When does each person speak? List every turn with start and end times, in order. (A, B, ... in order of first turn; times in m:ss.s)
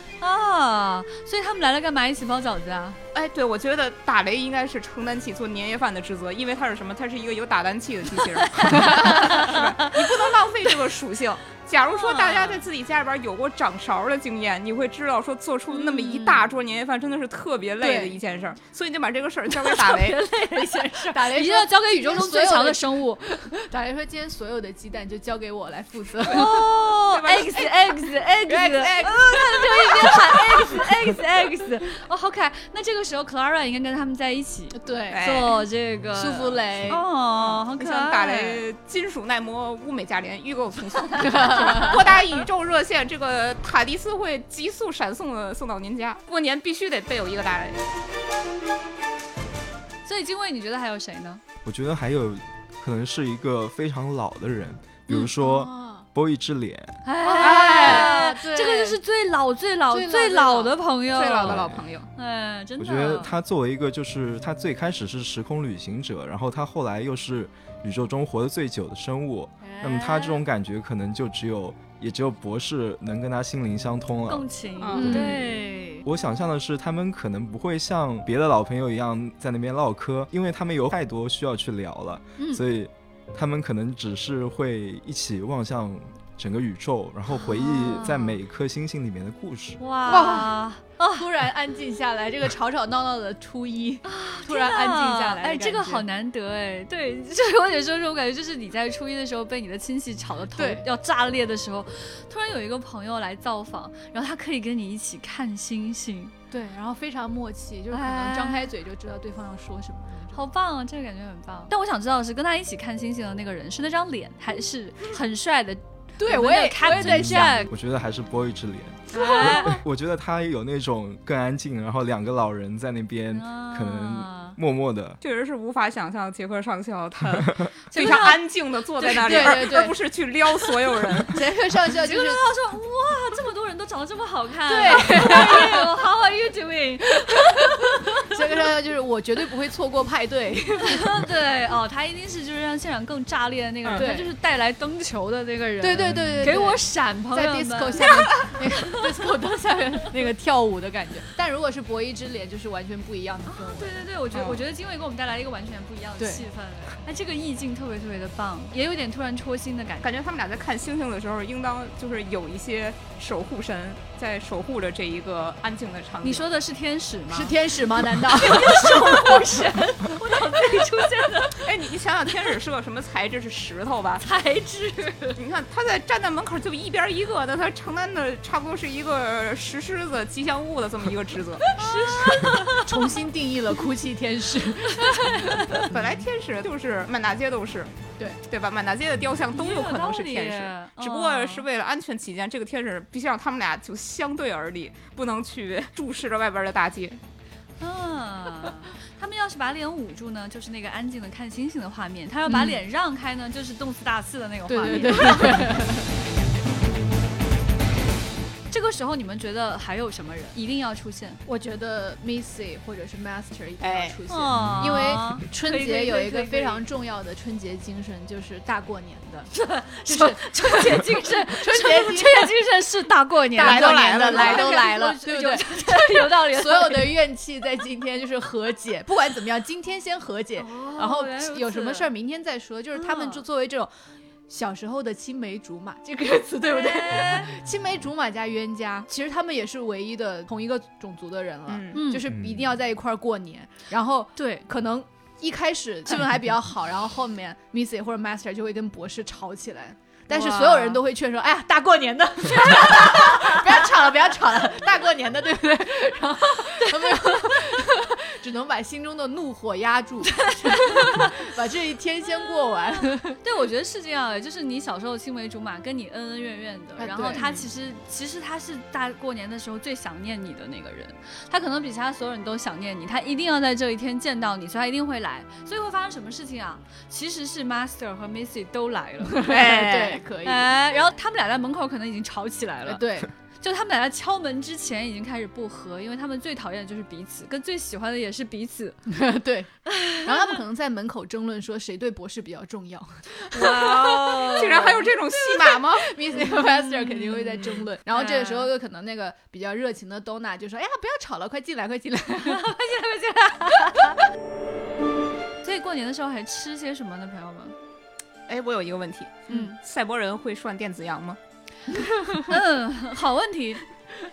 0:00.2-0:03.0 A
0:03.1-0:20.2 B
0:08.5-0:10.2 A
0:11.9-0:12.6 A
0:15.8-0:16.4 A
0:17.8-0:18.2 C
0:19.6-0:23.4 A
0:21.1-0:26.6 C
0:26.3-0:27.7 B
0:26.3-0:38.6 A
0:28.5-0:30.9 C
0:34.7-0:35.5 C
0:35.1-0:35.6 B
0:36.1-0:37.0 C
0:37.4-0:47.8 B
0:41.2-0:42.0 C
0:41.7-0:41.9 A
0:50.1-0:51.4 A
0:51.6-0:57.0 D
0:55.1-0:56.0 C
0:57.0-1:03.3 A
0:57.2-0:59.0 C
0:57.4-0:58.2 B
0:59.9-1:00.8 C
1:01.1-1:02.1 B
1:01.4-1:01.8 D
1:02.8-1:14.5 D
1:09.6-1:10.4 A
1:14.3-1:16.0 A
1:14.8-1:15.3 B
1:15.0-1:15.4 C
1:15.0-1:15.4 D
1:16.0-1:29.8 D
1:27.4-1:28.4 A
1:29.8-1:31.3 A
1:30.1-1:30.6 C
1:31.2-1:36.0 C
1:34.0-1:46.3 A
1:40.6-1:40.8 C
1:46.5-1:50.4 C
1:47.9-1:48.7 A
1:50.3-1:57.7 A
1:56.2-1:57.7 C
1:56.9-2:05.2 D
1:59.1-1:59.8 A
2:03.3-2:04.6 A
2:05.2-2:11.4 B
2:07.9-2:08.4 A
2:09.0-2:09.8 A
2:09.2-2:09.9 C
2:11.2-2:12.4 C
2:11.9-2:18.6 A
2:14.7-2:15.9 C
2:17.3-2:21.3 C
2:20.9-2:29.0 A
2:24.0-2:24.3 C
2:25.8-2:34.6 C
2:26.0-2:26.6 D
2:33.5-2:40.1 A
2:36.2-2:36.4 C
2:40.0-2:46.5 B
2:46.2-2:51.7 A
2:47.3-2:49.5 C
2:51.6-2:54.2 B
2:54.2-2:55.4 A
2:55.4-3:01.7 B
3:01.8-3:03.1 A
3:01.8-3:06.1 C
3:05.0-3:05.9 A
3:05.8-3:07.9 B
3:08.5-3:17.2 B
3:09.5-3:11.7 A
3:17.8-3:25.8 A
3:22.5-3:22.8 C
3:24.7-3:26.1 C
3:28.7-3:31.4 A
3:31.5-3:39.5 C
3:33.8-3:34.2 B
3:34.3-3:36.8 A
3:34.6-3:35.2 D
3:39.5-3:47.2 A
3:40.1-3:42.5 C
3:43.5-3:53.9 C
3:43.6-3:44.9 B
3:50.6-3:52.1 A
3:53.0-3:53.4 A
3:54.5-4:23.4 C
3:56.7-3:57.5 A
4:01.7-4:02.0 B
4:01.9-4:02.3 A
4:02.3-4:02.6 D
4:04.4-4:04.7 A
4:10.3-4:11.0 A
4:20.3-4:21.3 A
4:23.4-4:39.8 A
4:27.0-4:27.6 C
4:39.2-4:40.7 C
4:39.4-4:40.2 B
4:40.4-4:43.0 A
4:42.9-4:43.3 C
4:43.6-4:49.0 A
4:49.1-5:02.7 C
4:49.9-4:50.6 A
4:53.5-4:55.1 A
4:54.4-4:56.2 B
4:56.5-4:58.7 A
5:02.4-5:04.2 A
5:05.6-5:07.7 A
5:08.5-5:11.4 B
5:09.5-5:09.8 A
5:12.0-5:12.4 C
5:12.5-5:13.8 A